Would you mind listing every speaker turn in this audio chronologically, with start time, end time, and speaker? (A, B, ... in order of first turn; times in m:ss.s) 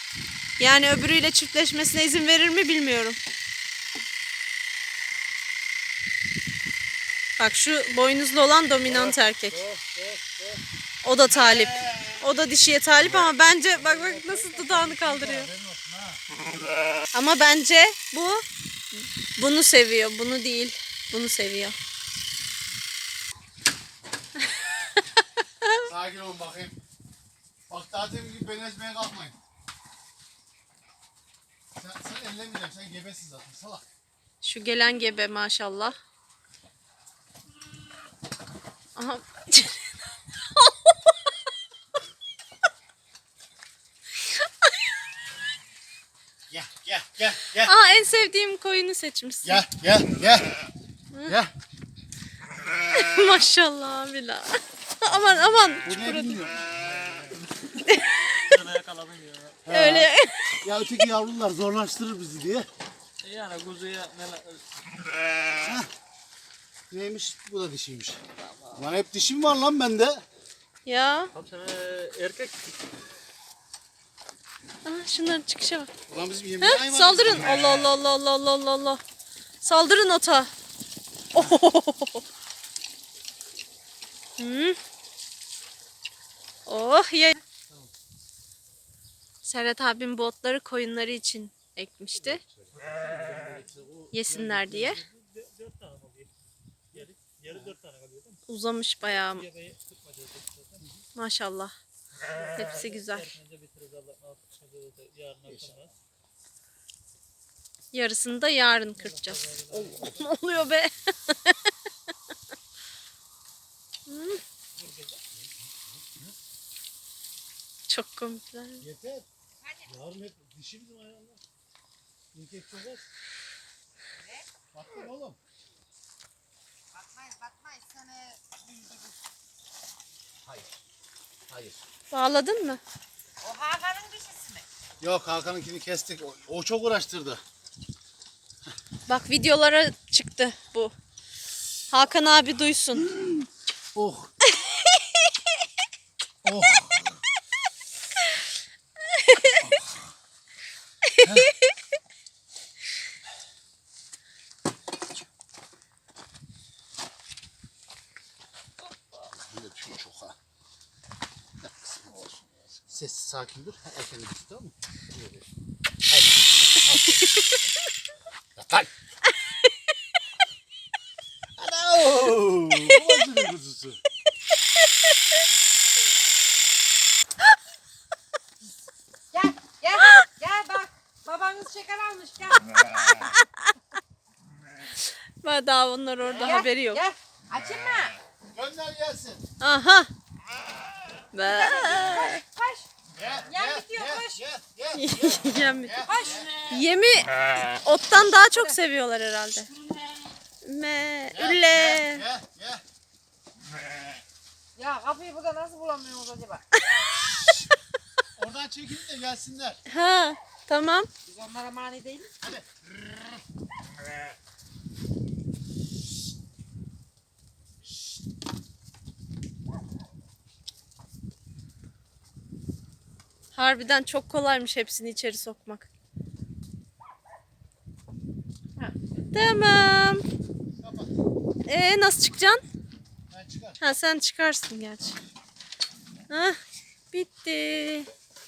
0:00.6-0:03.2 A
0:07.4-0:09.6 A
0:08.9-0:10.4 B
0:09.8-0:10.3 C
0:11.0-0:15.5 A
0:13.7-0:16.2 B
0:17.1-0:18.4 A
0:19.4-0:21.7 A
0:25.8-0:26.8 B
0:27.7-0:29.4 B
0:31.7-0:33.8 B
0:34.4-0:36.0 A
0:39.0-0:39.8 A
0:40.6-0:40.9 A
0:46.5-0:47.7 B
0:47.6-0:49.6 A
0:49.4-0:50.6 B
0:51.2-0:51.5 B
0:52.9-0:56.4 A
0:55.8-0:56.7 B
0:56.7-0:57.3 C
0:57.9-0:58.2 A
0:58.4-0:59.6 C
0:59.6-1:00.1 B
0:59.7-1:00.5 A
1:00.6-1:02.7 B
1:03.2-1:04.6 C
1:05.6-1:05.9 B
1:06.9-1:08.2 B
1:08.7-1:10.2 B
1:10.8-1:11.3 A
1:11.3-1:12.8 C
1:14.8-1:15.9 A
1:16.1-1:17.7 B
1:16.6-1:19.0 A
1:19.6-1:20.5 A
1:21.3-1:22.2 A
1:24.4-1:24.8 A
1:26.7-1:27.4 A
1:29.4-1:32.4 A
1:32.2-1:36.3 C
1:32.4-1:34.6 B
1:34.1-1:35.0 A
1:36.9-1:38.4 C
1:36.9-1:37.7 B
1:38.5-1:39.4 A
1:39.1-1:40.9 C
1:41.2-1:41.7 A
1:42.4-1:45.9 C
1:42.6-1:43.3 A
1:45.4-1:45.9 B
1:47.9-1:51.6 A
1:49.0-1:50.3 C
1:54.1-1:54.4 A
1:54.8-1:55.2 C
1:55.9-1:56.3 B
1:57.9-1:58.8 A
1:58.8-1:59.2 B
1:59.6-1:59.9 D
1:59.8-2:01.4 B
2:02.3-2:03.0 B
2:04.2-2:04.4 D
2:04.7-2:05.4 B
2:06.9-2:09.1 D
2:11.5-2:11.8 B
2:12.1-2:12.8 A
2:13.4-2:14.6 D
2:15.0-2:17.4 B
2:19.1-2:20.9 A
2:21.9-2:23.1 A
2:23.0-2:24.3 B
2:26.4-2:27.2 B
2:29.2-2:29.6 A
2:29.6-2:29.9 B
2:31.2-2:31.5 B
2:39.3-2:40.4 B
2:41.6-2:45.4 B
2:46.1-2:47.3 B
2:48.6-2:48.9 B
2:51.6-2:54.0 B
2:59.3-3:02.6 D
3:05.4-3:07.0 A
3:06.3-3:08.2 D
3:08.5-3:09.4 B
3:09.6-3:10.1 A
3:11.3-3:12.4 A
3:11.4-3:12.9 D
3:13.2-3:16.6 B
3:13.5-3:14.4 D
3:14.9-3:16.0 A
3:16.0-3:16.7 D
3:16.7-3:19.7 A
3:18.4-3:18.8 D
3:20.6-3:22.2 A
3:21.3-3:22.8 B
3:24.8-3:26.6 D
3:26.8-3:27.2 A
3:28.4-3:29.8 B
3:29.9-3:31.1 A
3:31.2-3:32.3 D
3:32.4-3:32.8 B
3:43.5-3:45.9 A
3:49.3-3:50.2 A
3:50.8-3:51.1 B
3:51.7-3:52.6 A
3:53.3-3:53.8 B
3:53.8-3:55.2 A
3:56.3-3:56.6 A
3:57.1-3:58.1 A